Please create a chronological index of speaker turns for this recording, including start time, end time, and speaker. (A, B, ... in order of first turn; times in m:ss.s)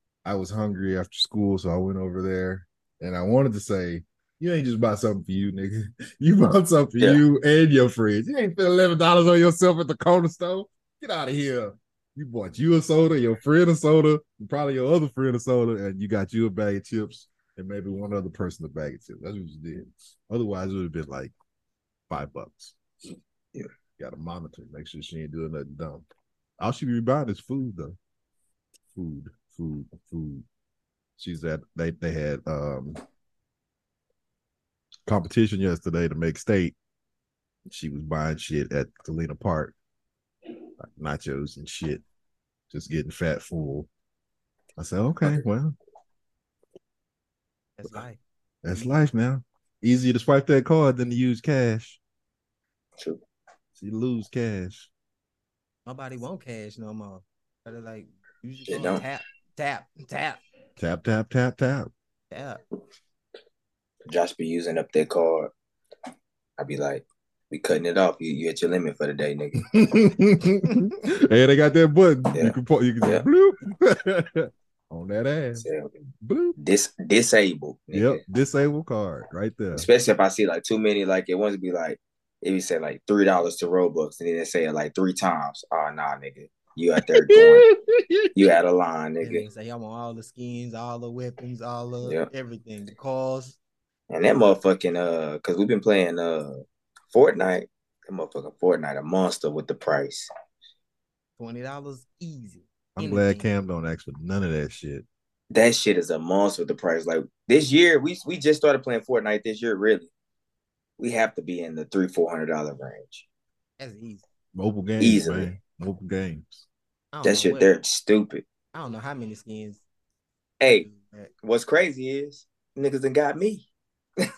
0:00.2-0:21.3 A
0:22.1-0:22.8 A
0:24.0-0:26.0 A
0:26.6-0:28.0 A
0:28.9-0:30.4 A
0:31.2-0:33.0 A
0:35.0-0:36.7 A
0:37.7-0:39.7 A
0:40.8-0:42.0 A
0:42.7-0:43.9 A
0:44.8-0:45.7 A
0:47.8-0:48.2 B
0:48.6-0:52.0 A
0:53.8-0:54.9 A
0:55.8-1:00.4 B
0:58.7-0:59.0 C
1:00.8-1:01.9 A
1:02.3-1:02.6 B
1:04.1-1:05.5 C
1:06.6-1:09.7 C
1:09.7-1:15.6 A
1:12.3-1:13.2 C
1:15.6-1:16.0 C
1:16.2-1:16.6 A
1:16.6-1:18.2 C
1:17.9-1:19.9 A
1:19.7-1:27.7 C
1:27.1-1:28.3 A
1:28.3-1:29.4 C
1:29.2-1:33.6 B
1:32.0-1:32.3 C
1:34.1-1:40.3 C
1:41.4-1:43.4 B
1:43.0-1:45.0 A
1:45.5-1:50.1 C
1:51.0-1:53.2 C
1:53.8-1:54.2 B
1:54.5-1:56.6 A
1:55.0-1:55.5 C
1:57.1-1:57.7 B
1:57.2-1:58.4 C
1:58.7-1:59.8 B
2:00.6-2:00.8 C
2:00.7-2:01.3 B
2:01.4-2:03.6 C